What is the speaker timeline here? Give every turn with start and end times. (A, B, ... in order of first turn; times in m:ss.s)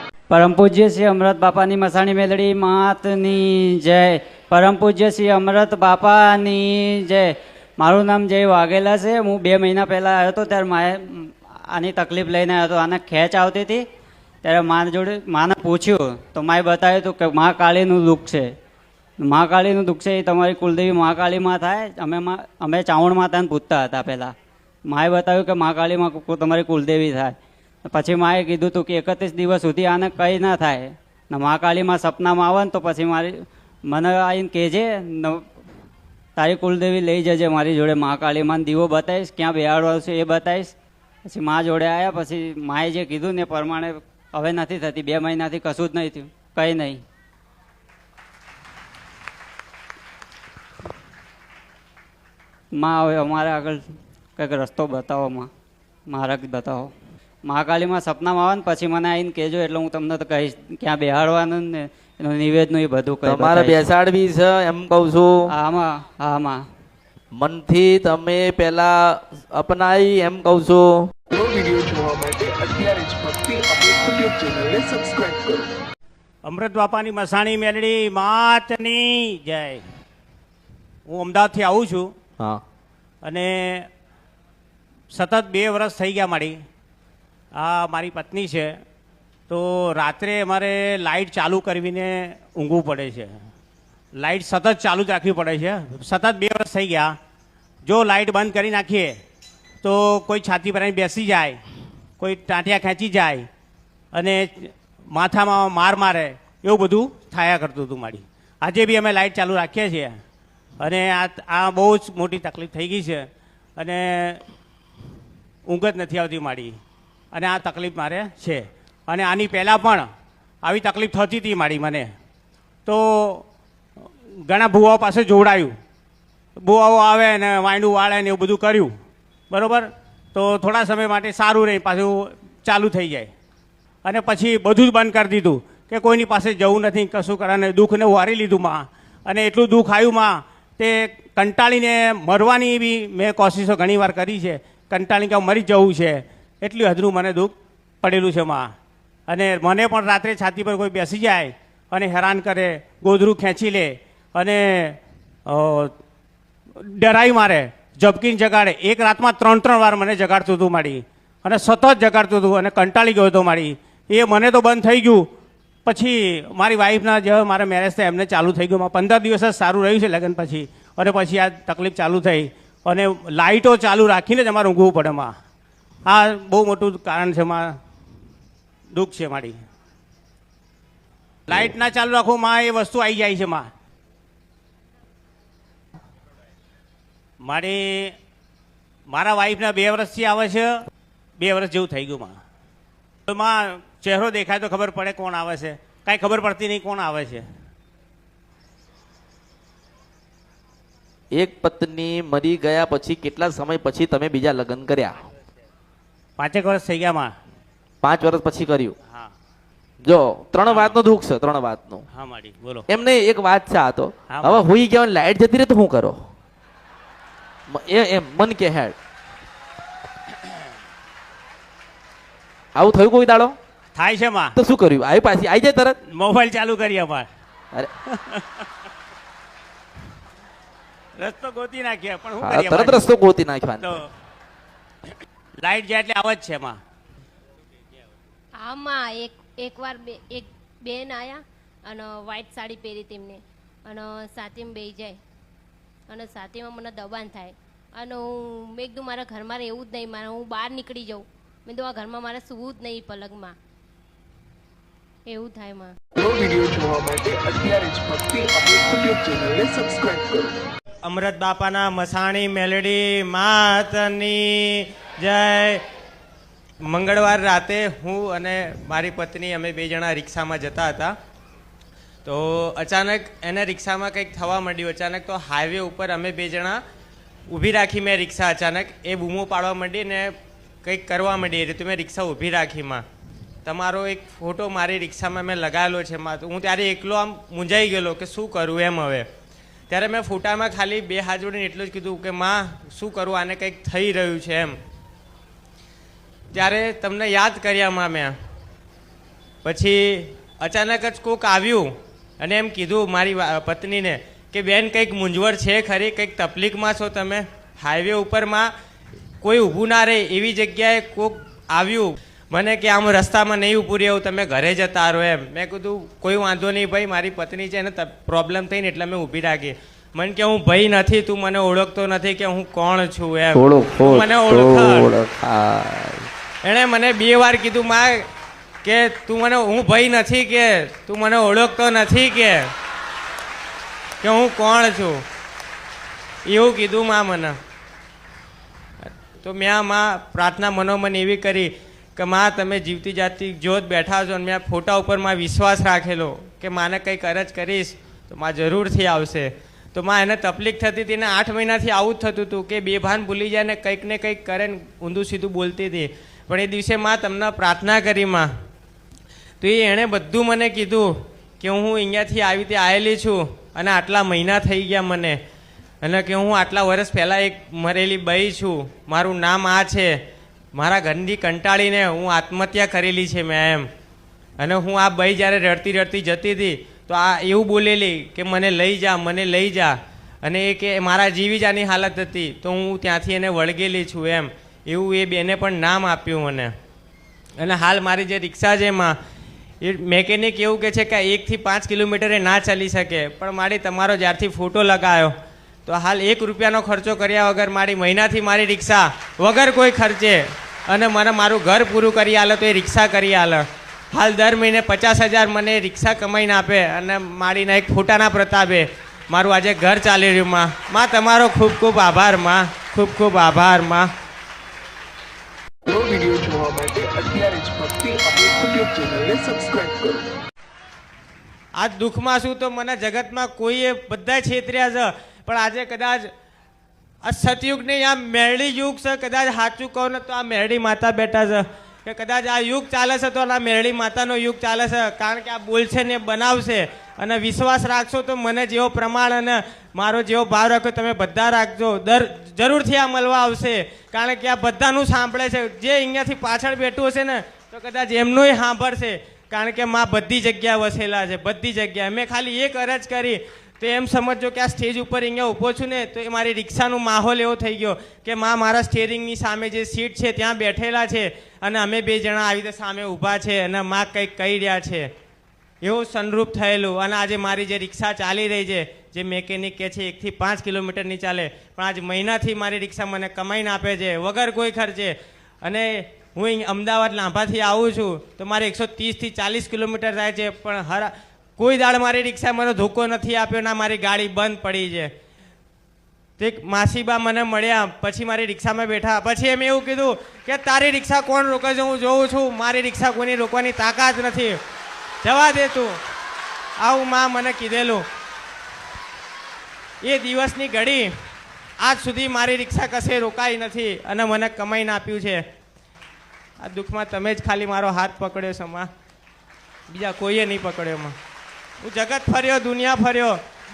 0:00.3-0:13.8 A
0:14.4-0:18.5 A
0:19.2-0:24.3 A
0:24.9-0:35.5 A
0:36.4-0:40.7 A
0:41.2-0:47.0 A
0:52.7-0:55.5 A
0:56.1-0:56.9 A
0:57.4-1:03.8 A
1:03.2-1:05.5 B
1:05.5-1:06.6 A
1:07.3-1:11.1 B
1:11.3-1:15.6 C
1:16.4-1:19.8 D
1:21.1-1:22.1 D
1:23.2-1:23.9 D
1:25.1-1:26.6 D
1:27.5-1:28.8 D
1:29.5-1:33.3 D
1:34.2-1:37.1 D
1:37.8-1:39.2 D
1:39.8-1:41.6 D
1:42.2-1:43.5 D
1:44.1-1:50.1 D
1:50.8-1:53.3 D
1:53.8-1:54.4 D
1:55.7-1:56.8 D
1:57.3-2:00.1 D
2:00.6-2:02.1 D
2:02.8-2:03.4 D
2:04.4-2:05.7 D
2:06.6-2:08.9 D
2:09.5-2:13.3 D
2:14.0-2:28.7 D
2:29.3-2:35.9 D
2:36.8-2:45.3 D
2:45.8-2:55.3 D
2:56.0-2:57.8 D
2:58.9-2:59.6 D
3:01.5-3:03.7 D
3:07.4-3:08.1 D
3:09.1-3:10.8 D
3:11.4-3:12.4 D
3:13.3-3:17.4 D
3:21.3-3:25.2 B
3:26.4-3:27.3 D
3:28.0-3:29.0 B
3:30.0-3:32.0 B
3:30.7-3:30.9 D
3:32.1-3:32.8 D
3:32.9-3:36.2 B
3:34.3-3:34.6 D
3:37.7-3:39.0 B
3:42.8-3:43.6 B
3:44.0-3:44.5 D
3:44.6-3:46.0 B
3:46.1-3:47.3 D
3:48.2-3:48.4 D
3:51.2-3:53.0 D
3:52.4-3:54.0 B
3:55.6-3:56.8 D
3:58.6-4:05.2 E
4:06.1-4:13.5 E
4:15.3-4:15.9 E
4:16.2-4:20.4 C
4:21.0-4:25.8 F
4:26.8-4:31.1 F
4:32.2-4:36.8 F
4:37.5-4:43.0 F
4:43.6-4:49.3 F
4:49.9-4:54.8 F
4:56.5-4:58.3 F
4:59.6-5:08.7 F
5:09.4-5:25.1 F
5:23.5-5:26.3 B
5:26.6-5:28.2 F
5:28.8-5:32.7 F
5:34.2-5:35.2 F
5:36.4-5:37.6 F
5:39.1-5:58.5 F
5:59.6-6:05.4 F
6:06.0-6:10.1 F
6:10.7-6:13.9 F
6:14.6-6:26.7 F
6:27.6-6:29.2 F
6:29.8-6:35.3 F
6:35.8-6:54.1 F
6:55.8-7:00.1 C
7:01.8-7:06.3 F
7:07.2-7:45.1 F
7:45.8-8:05.1 F
8:06.4-8:14.6 F
8:15.2-8:16.0 F
8:16.8-8:18.0 F
8:20.0-8:21.1 F
8:21.8-8:25.4 F
8:26.6-8:28.9 F
8:29.9-8:31.2 F
8:31.8-8:33.4 F